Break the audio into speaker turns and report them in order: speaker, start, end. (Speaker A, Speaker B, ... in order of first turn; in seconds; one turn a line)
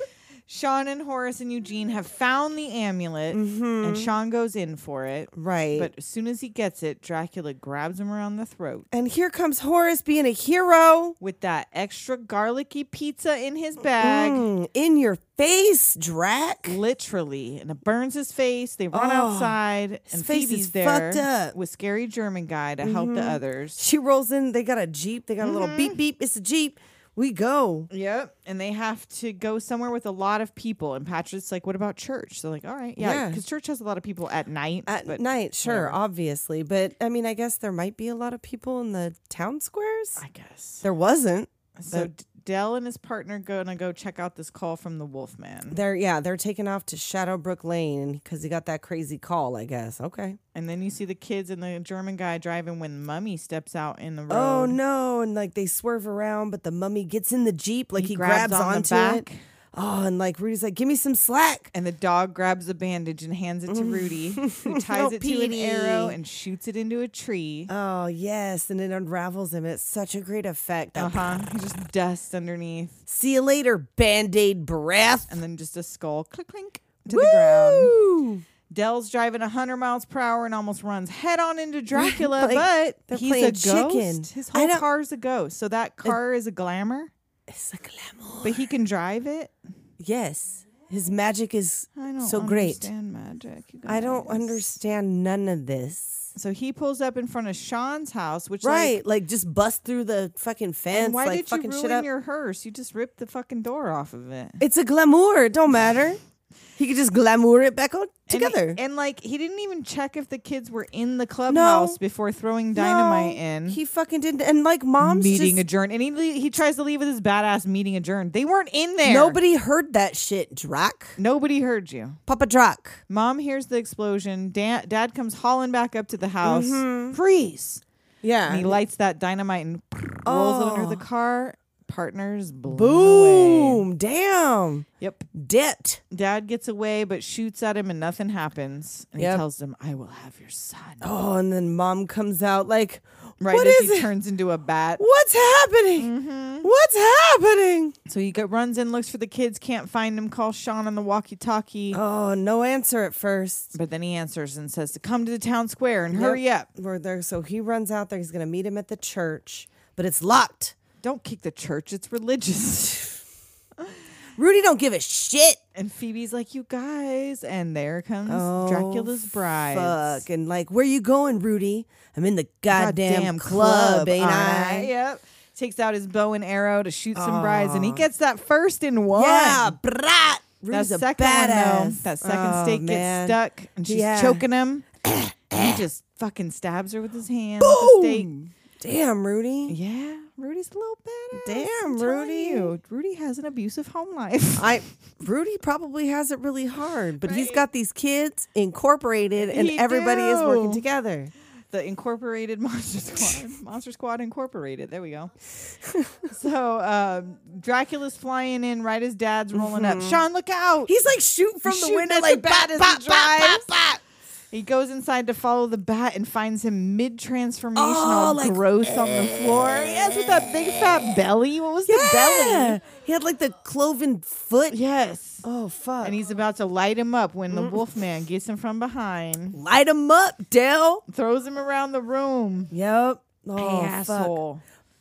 Speaker A: 0.5-8.9
Speaker B: 3.3-4.1
Speaker B: 5.3-5.9
Speaker B: 8.9-11.2
Speaker A: 11.2-14.5
Speaker B: 14.0-16.8
Speaker A: 16.7-23.8
Speaker B: 18.9-19.6
Speaker B: 20.1-21.6
Speaker B: 22.8-27.9
Speaker A: 25.4-26.0
Speaker A: 27.9-36.0
Speaker B: 33.0-33.4
Speaker B: 34.9-40.2
Speaker A: 40.2-40.8
Speaker B: 40.8-42.1
Speaker A: 41.8-45.8
Speaker B: 45.7-50.4
Speaker A: 50.5-54.8
Speaker B: 54.3-61.7
Speaker A: 58.0-59.4
Speaker A: 61.7-67.7
Speaker B: 63.7-66.2
Speaker B: 67.7-71.3
Speaker A: 70.9-73.0
Speaker B: 73.1-75.4
Speaker A: 75.3-77.9
Speaker B: 77.1-78.4
Speaker A: 78.7-87.1
Speaker B: 81.9-84.8
Speaker B: 87.5-88.6
Speaker A: 88.4-89.5
Speaker B: 90.0-92.9
Speaker A: 92.0-94.6
Speaker B: 93.9-96.3
Speaker A: 96.3-99.0
Speaker B: 98.6-102.0
Speaker A: 100.9-104.6
Speaker B: 104.6-106.2
Speaker B: 106.8-108.8
Speaker A: 108.3-113.8
Speaker B: 111.5-112.0
Speaker B: 112.7-115.6
Speaker A: 115.0-119.4
Speaker B: 119.0-121.2
Speaker A: 121.2-122.2
Speaker B: 122.3-123.0
Speaker A: 123.1-127.8
Speaker B: 126.4-127.2
Speaker B: 128.2-128.8
Speaker A: 128.5-133.8
Speaker B: 130.2-131.0
Speaker B: 132.7-136.0
Speaker A: 135.0-135.3
Speaker A: 136.1-141.0
Speaker B: 139.2-139.4
Speaker B: 141.0-144.1
Speaker A: 143.4-145.0
Speaker B: 145.0-148.0
Speaker A: 146.0-146.7
Speaker A: 148.1-152.0
Speaker B: 151.9-153.7
Speaker A: 153.7-156.7
Speaker B: 156.1-160.7
Speaker A: 161.0-163.2
Speaker B: 164.4-165.6
Speaker A: 165.7-170.2
Speaker B: 168.2-174.9
Speaker A: 172.7-179.8
Speaker B: 177.1-178.0
Speaker B: 179.1-184.4
Speaker A: 180.7-184.9
Speaker B: 185.0-185.8
Speaker A: 185.5-188.3
Speaker B: 187.6-189.8
Speaker A: 189.7-194.8
Speaker B: 191.3-192.7
Speaker B: 194.6-201.3
Speaker A: 197.2-197.6
Speaker A: 199.4-200.8
Speaker A: 201.7-205.3
Speaker B: 205.8-206.2
Speaker A: 206.3-210.9
Speaker B: 209.5-210.2
Speaker B: 210.9-214.0
Speaker A: 211.6-213.7
Speaker A: 214.5-222.8
Speaker B: 217.8-221.0
Speaker B: 221.9-224.8
Speaker A: 224.7-225.4
Speaker B: 225.4-226.2
Speaker A: 226.0-229.6
Speaker B: 227.5-227.8
Speaker B: 229.5-231.0
Speaker A: 231.1-232.7
Speaker B: 232.7-234.4
Speaker A: 233.6-234.6